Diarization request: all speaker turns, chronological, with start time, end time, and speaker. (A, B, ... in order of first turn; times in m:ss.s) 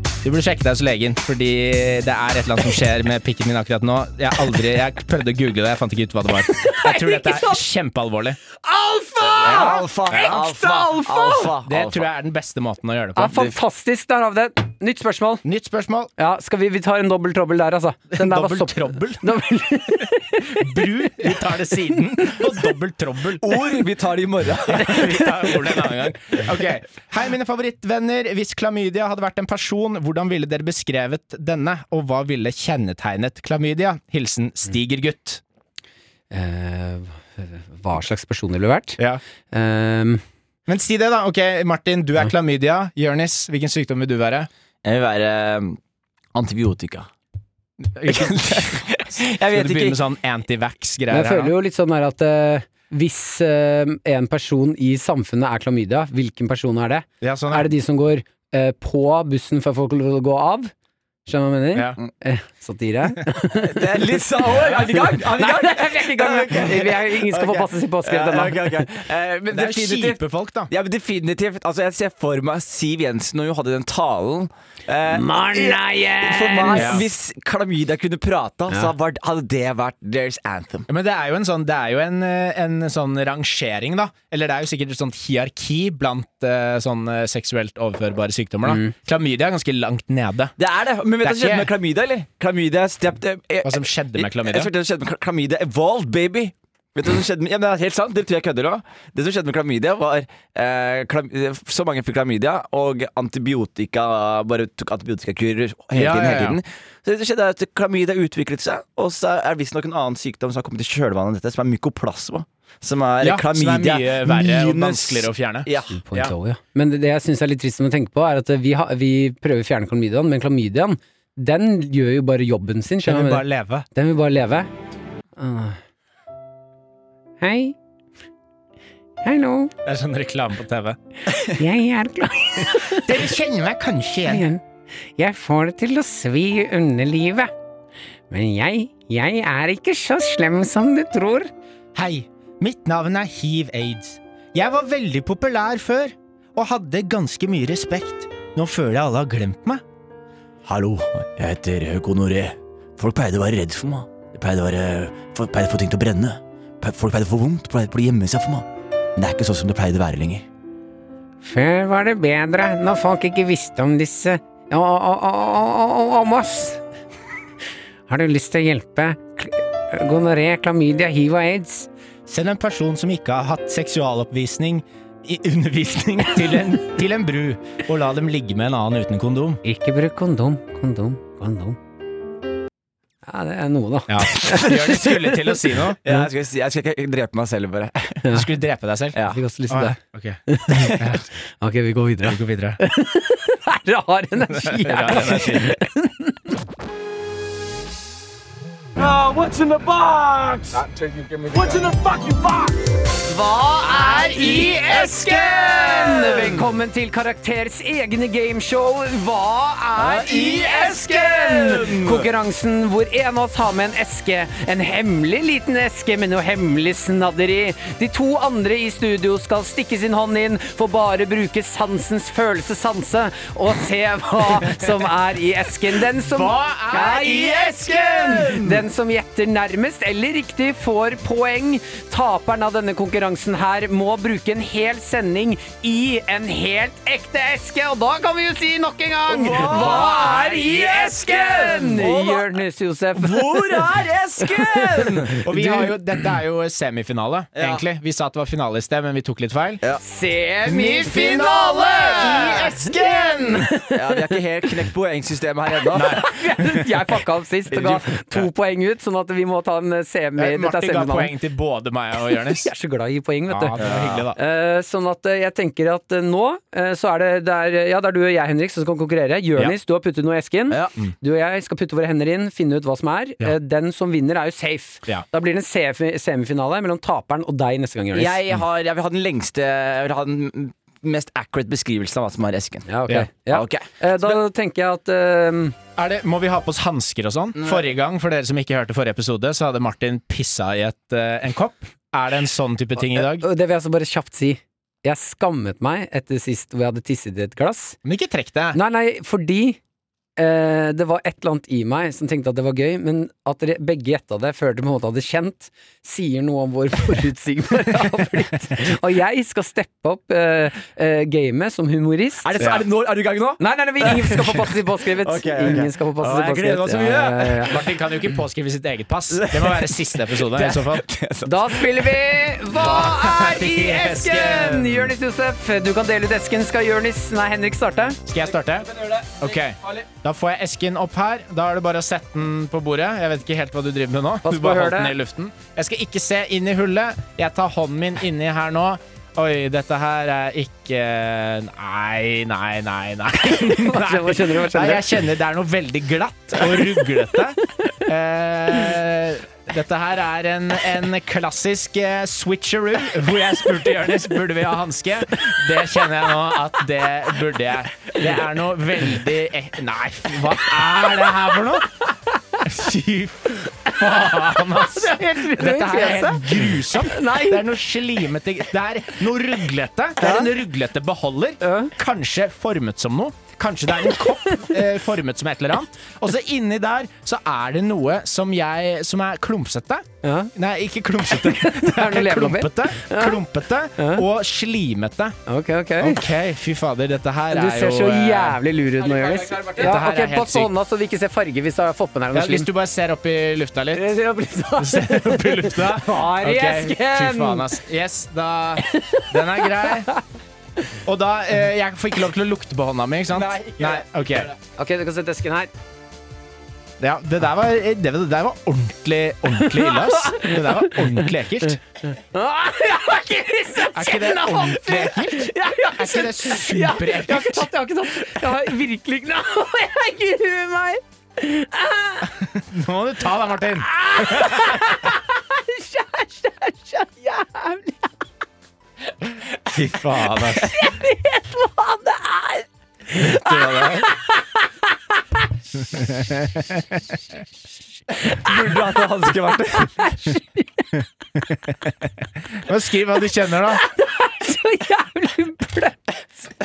0:00.2-0:08.4 A
0:06.6-0:07.6 B
0:08.6-0:11.5 B
0:09.3-0:12.1 C
0:09.4-0:10.4 A
0:11.6-0:13.4 A
0:13.2-0:15.4 B
0:15.4-0:16.1 A
0:16.2-0:21.3 B
0:18.1-0:19.3 A
0:20.4-0:23.6 A
0:23.4-0:25.6 C
0:24.7-0:35.4 A
0:36.3-0:39.0 B
0:39.5-0:40.2 B
0:40.7-0:44.5 A
0:44.8-0:45.8 C
0:46.4-0:47.1 C
0:47.9-0:51.5 A
0:48.1-0:50.0 C
0:51.1-1:00.7 B
0:57.2-0:57.7 A
1:01.2-1:04.2 B
1:03.6-1:20.9 C
1:04.8-1:08.9 B
1:09.5-1:10.7 A
1:15.1-1:17.0 B
1:16.7-1:17.1 A
1:20.9-1:30.5 A
1:28.7-1:28.9 B
1:30.6-1:56.0 C
1:31.2-1:31.7 A
1:33.6-1:34.7 A
1:45.9-1:46.6 A
1:53.2-1:56.3 A
1:55.9-2:04.7 B
2:03.0-2:03.9 A
2:05.4-2:05.8 B
2:07.4-2:07.8 B
2:09.2-2:09.7 B
2:09.8-2:11.0 A
2:11.6-2:13.1 B
2:12.8-2:14.5 A
2:14.3-2:14.6 B
2:15.2-2:17.5 B
2:18.3-2:21.5 B
2:22.0-2:29.8 A
2:30.6-2:40.4 C
2:41.4-2:46.8 B
2:48.1-2:51.9 B
2:52.3-2:59.6 A
2:59.6-3:01.8 B
3:03.3-3:06.3 B
3:04.1-3:06.0 A
3:06.0-3:08.2 C
3:08.2-3:08.5 B
3:08.3-3:09.2 A
3:09.2-3:09.4 C
3:09.2-3:11.1 B
3:09.7-3:11.3 A
3:11.6-3:16.6 B
3:12.2-3:12.8 A
3:14.5-3:15.8 A
3:19.0-3:22.8 C
3:23.3-4:03.9 B
3:23.8-3:25.4 A
3:24.2-3:26.6 C
3:30.0-3:32.3 C
3:46.2-3:48.5 A
3:46.9-3:48.8 C
3:59.3-4:02.5 C
4:03.2-4:05.5 C
4:04.4-4:05.9 B
4:05.4-4:09.8 A
4:07.6-4:07.8 C
4:10.0-4:14.4 B
4:10.7-4:13.7 A
4:13.9-4:16.2 C
4:15.9-4:16.9 A
4:16.0-4:21.3 B
4:17.7-4:18.4 C
4:20.4-4:22.7 A
4:22.3-4:23.8 B
4:23.5-4:24.4 A
4:23.8-4:24.3 C
4:24.4-4:38.4 B
4:30.7-4:31.0 C
4:38.1-4:42.9 C
4:42.9-4:45.8 B
4:43.5-4:44.4 C
4:46.0-4:53.5 A
4:53.0-4:58.0 B
4:58.0-4:58.8 A
4:58.7-4:59.8 B
5:00.4-5:12.6 B
5:12.4-5:17.8 C
5:12.6-5:12.8 A
5:13.6-5:17.8 B
5:17.7-5:21.0 A
5:19.3-5:22.3 C
5:21.4-5:28.2 B
5:22.8-5:25.1 A
5:28.3-6:02.0 A
5:28.6-5:30.1 C
5:34.4-5:35.2 B
5:43.5-5:45.2 B
6:02.6-6:25.4 A
6:04.6-6:07.7 B
6:10.2-6:10.5 B
6:11.6-6:11.9 B
6:14.4-6:14.8 B
6:20.2-6:20.5 B
6:21.3-6:23.4 B
6:24.0-6:24.2 B
6:25.5-6:26.2 B
6:26.0-6:28.6 A
6:27.5-6:32.7 B
6:29.0-6:30.0 C
6:29.8-6:30.7 A
6:32.3-6:34.0 A
6:33.9-6:37.7 B
6:34.8-6:40.1 A
6:38.8-6:40.2 B
6:41.0-6:44.5 A
6:43.3-6:44.5 C
6:44.8-6:45.7 B
6:47.0-6:51.8 A
6:49.6-6:51.3 B
6:52.1-7:02.5 B
6:53.9-6:57.7 A
7:02.5-7:04.9 A
7:03.8-7:08.1 B
7:09.7-7:10.7 A
7:10.6-7:14.6 B
7:13.3-7:14.0 C
7:15.8-7:17.2 A
7:18.2-7:20.1 C
7:19.7-7:21.0 B
7:22.5-7:23.8 A
7:23.5-7:26.2 B